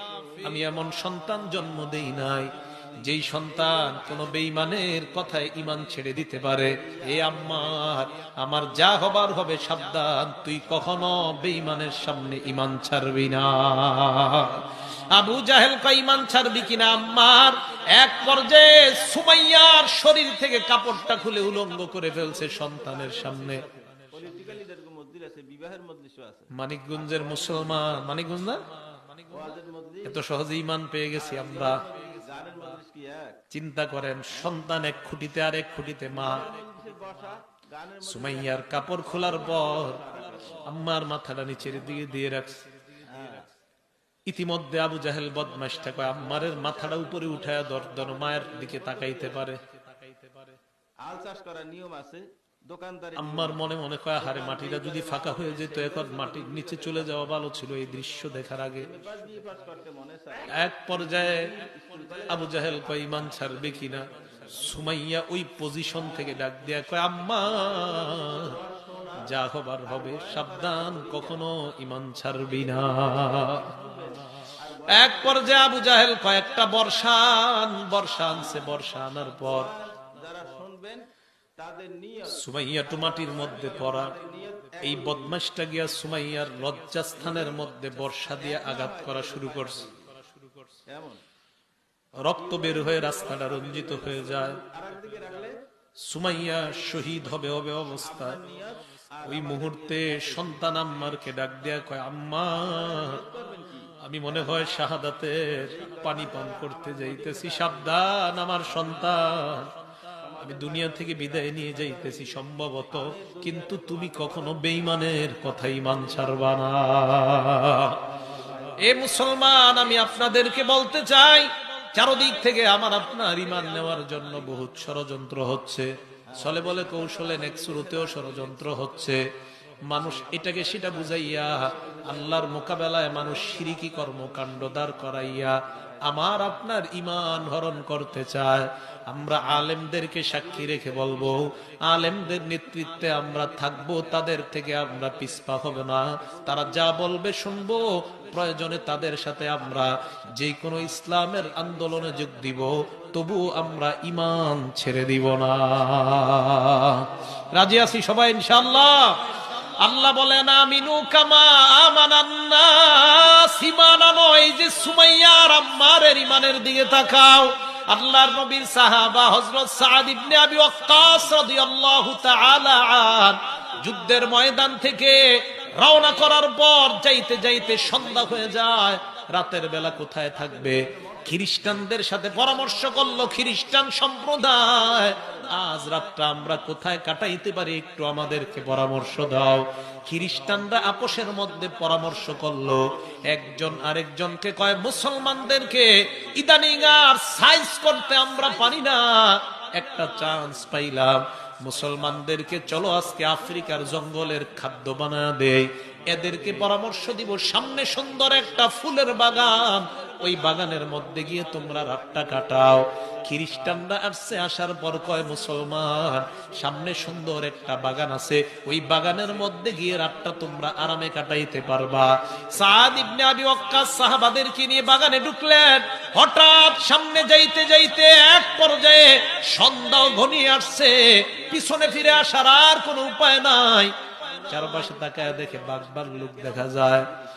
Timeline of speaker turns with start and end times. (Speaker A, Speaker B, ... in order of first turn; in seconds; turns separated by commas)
Speaker A: 0.4-23.7, Speaker B: 24.1-26.5, Speaker A: 26.5-28.7, Speaker B: 29.3-30.1, Speaker A: 30.0-31.9, Speaker B: 31.7-33.4, Speaker A: 33.5-36.5, Speaker B: 36.4-38.3, Speaker A: 38.0-40.0, Speaker B: 39.7-40.6, Speaker A: 40.6-42.6, Speaker B: 43.1-43.5, Speaker A: 44.3-50.5, Speaker B: 51.0-53.5, Speaker A: 53.2-58.9, Speaker B: 58.9-60.6, Speaker A: 60.5-61.5, Speaker B: 61.3-62.7, Speaker A: 62.3-68.6, Speaker B: 68.1-69.1, Speaker A: 69.2-73.9, Speaker B: 74.6-75.1, Speaker A: 74.9-79.8, Speaker B: 79.7-82.3, Speaker A: 82.3-84.2, Speaker B: 84.0-84.9, Speaker A: 84.8-89.9, Speaker B: 90.9-91.2, Speaker A: 92.2-94.6, Speaker B: 94.5-95.6, Speaker A: 96.1-98.4, Speaker B: 98.3-98.8, Speaker A: 99.2-103.2, Speaker B: 102.8-103.9, Speaker A: 104.0-109.7, Speaker A: 110.4-118.0, Speaker A: 118.8-129.2, Speaker A: 129.9-237.1